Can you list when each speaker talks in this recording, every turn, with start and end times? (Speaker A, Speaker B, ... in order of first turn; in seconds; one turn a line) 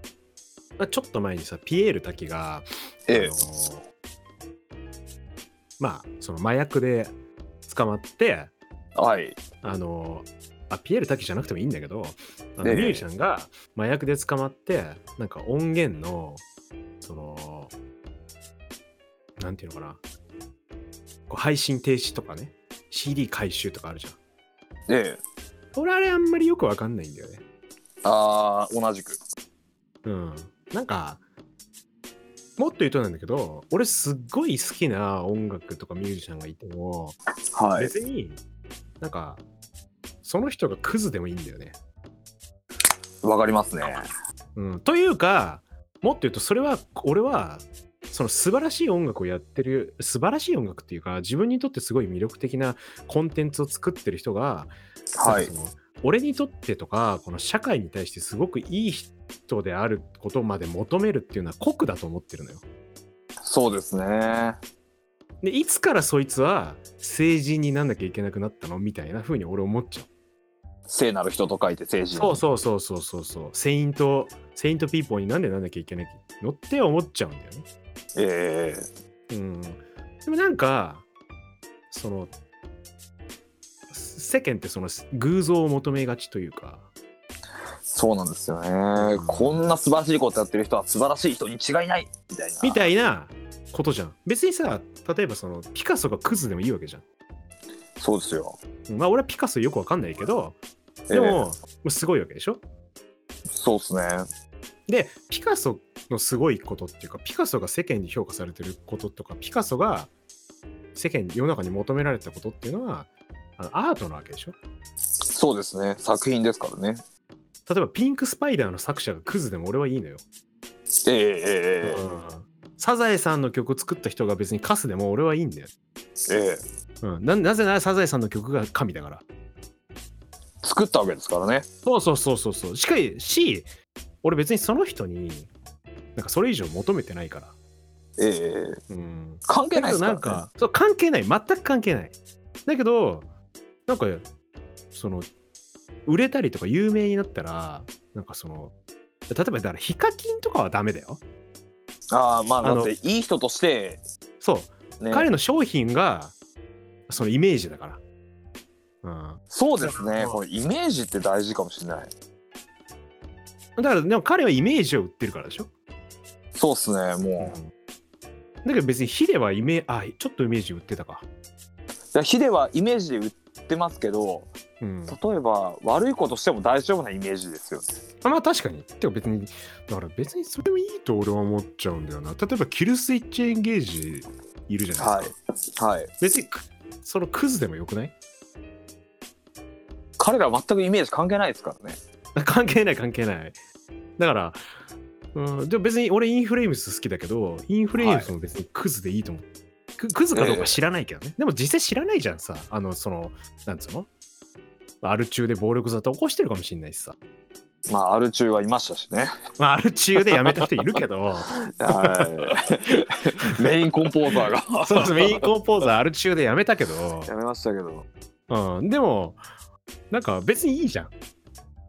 Speaker A: 0.8-3.9
Speaker B: 3.1-3.4
Speaker A: 5.8-7.2
Speaker A: 7.7-8.5
Speaker B: 9.0-9.4
Speaker A: 9.6-16.4
Speaker B: 12.6-13.1
Speaker A: 17.0-17.7
Speaker A: 19.4-20.0
Speaker A: 21.3-24.2
Speaker B: 24.9-25.2
Speaker A: 25.7-27.4
Speaker B: 28.0-29.2
Speaker A: 30.1-31.2
Speaker A: 32.6-37.2
Speaker B: 37.5-37.9
Speaker A: 37.8-38.4
Speaker A: 39.0-39.4
Speaker A: 40.2-41.8
Speaker B: 43.2-44.1
Speaker A: 44.5-62.6
Speaker B: 55.1-55.5
Speaker B: 63.4-64.6
Speaker A: 65.4-70.1
Speaker B: 70.9-72.4
Speaker A: 72.2-77.7
Speaker B: 78.2-78.9
Speaker A: 79.3-81.1
Speaker A: 81.9-82.3
Speaker A: 83.9-86.9
Speaker B: 87.9-92.9
Speaker A: 89.0-89.6
Speaker A: 92.6-97.0
Speaker B: 98.0-98.6
Speaker A: 98.9-100.6
Speaker B: 101.1-101.5
Speaker A: 101.1-102.6
Speaker B: 103.5-104.3
Speaker A: 104.9-110.1
Speaker A: 111.0-114.6
Speaker B: 115.3-117.0
Speaker A: 117.7-120.2
Speaker B: 121.0-122.0
Speaker A: 121.8-125.7
Speaker B: 126.3-126.6
Speaker A: 127.0-129.2
Speaker B: 130.6-131.7
Speaker A: 131.8-133.7
Speaker A: 134.2-135.5
Speaker A: 136.2-137.6
Speaker B: 138.2-138.8
Speaker A: 138.9-143.3
Speaker B: 139.5-140.4
Speaker A: 143.9-144.3
Speaker A: 144.9-145.3
Speaker A: 146.1-148.7
Speaker A: 149.3-151.2
Speaker B: 152.1-154.0
Speaker A: 152.6-152.9
Speaker A: 154.4-156.3
Speaker B: 155.0-155.3
Speaker A: 157.1-158.0
Speaker A: 159.0-160.4
Speaker B: 159.5-162.1
Speaker A: 163.8-165.7
Speaker B: 166.5-167.6
Speaker A: 167.4-167.7
Speaker A: 168.6-171.3
Speaker B: 172.1-174.5
Speaker A: 174.8-175.2
Speaker B: 175.1-178.0
Speaker A: 178.2-185.3
Speaker B: 185.0-186.1
Speaker A: 186.2-188.2
Speaker B: 190.2-192.0
Speaker A: 192.4-193.6
Speaker A: 194.2-194.6
Speaker A: 195.3-204.1
Speaker B: 197.9-198.3
Speaker B: 200.3-200.8
Speaker A: 205.0-207.2
Speaker B: 207.9-209.3
Speaker A: 209.6-212.4
Speaker B: 210.2-210.7
Speaker B: 211.7-215.5
Speaker A: 214.8-217.3
Speaker B: 217.2-218.1
Speaker A: 218.5-219.4
Speaker A: 220.1-221.1